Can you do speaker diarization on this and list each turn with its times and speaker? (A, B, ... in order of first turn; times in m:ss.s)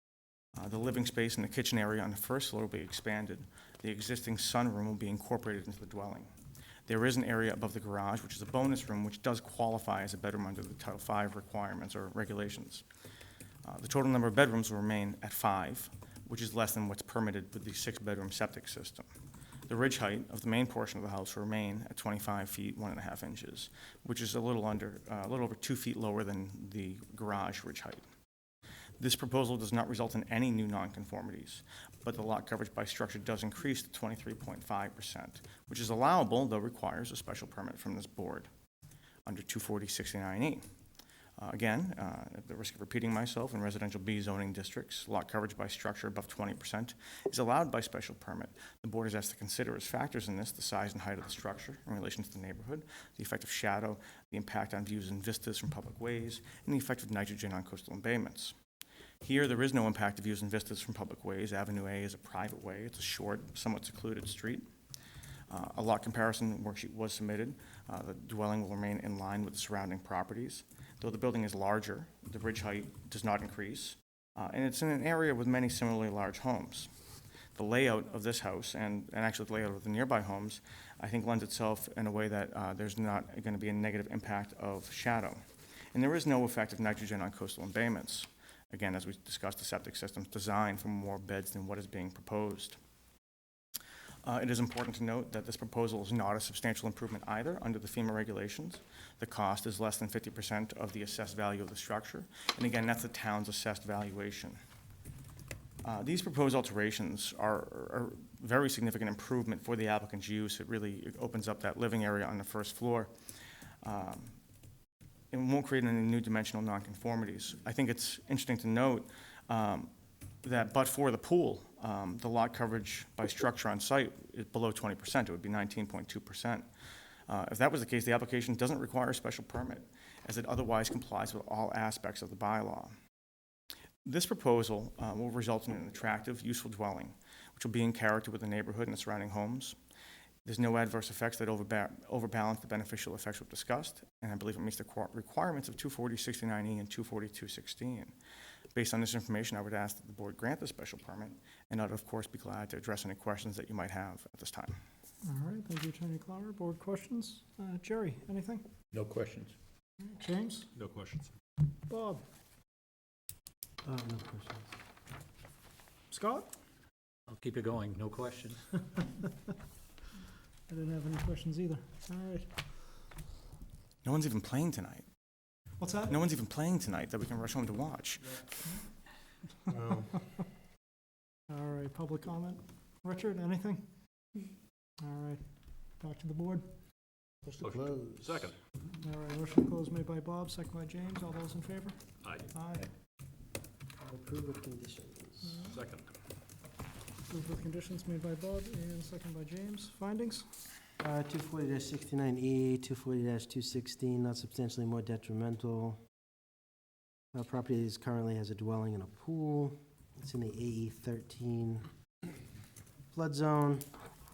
0:00.6-0:06.3 A
0:06.9-0:12.8 A
0:13.6-0:19.1 A
0:19.7-0:28.1 A
0:29.0-0:38.5 A
0:39.2-0:40.6 A
0:41.4-0:58.6 A
0:59.2-1:04.7 A
1:05.5-1:16.9 A
1:17.6-1:25.4 A
1:25.9-1:32.8 A
1:34.2-1:44.6 A
1:45.8-1:53.1 A
1:53.8-1:54.4 A
1:55.3-1:59.9 A
2:00.4-2:06.7 A
2:07.3-2:13.0 A
2:14.0-2:19.8 A
2:20.4-2:28.1 A
2:28.8-2:34.8 A
2:35.2-2:38.7 B
2:38.9-2:39.6 C
2:40.0-2:40.7 B
2:40.7-2:41.3 C
2:41.9-2:42.2 B
2:43.8-2:44.8 D
2:46.1-2:46.5 B
2:47.3-2:48.6 C
2:50.7-2:53.0 B
2:54.0-2:55.1 A
2:55.8-2:56.2 B
2:56.1-2:58.4 A
2:59.7-3:00.2 D
3:01.5-3:04.3 B
3:05.0-3:06.7 B
3:07.5-3:08.2 D
3:07.6-3:08.6 C
3:09.0-3:12.9 B
3:12.2-3:12.5 C
3:14.0-3:15.6 D
3:15.4-3:15.8 B
3:15.6-3:16.1 C
3:17.3-3:20.5 B
3:21.0-3:26.0 D
3:27.3-3:31.9 D
3:33.1-3:33.9 D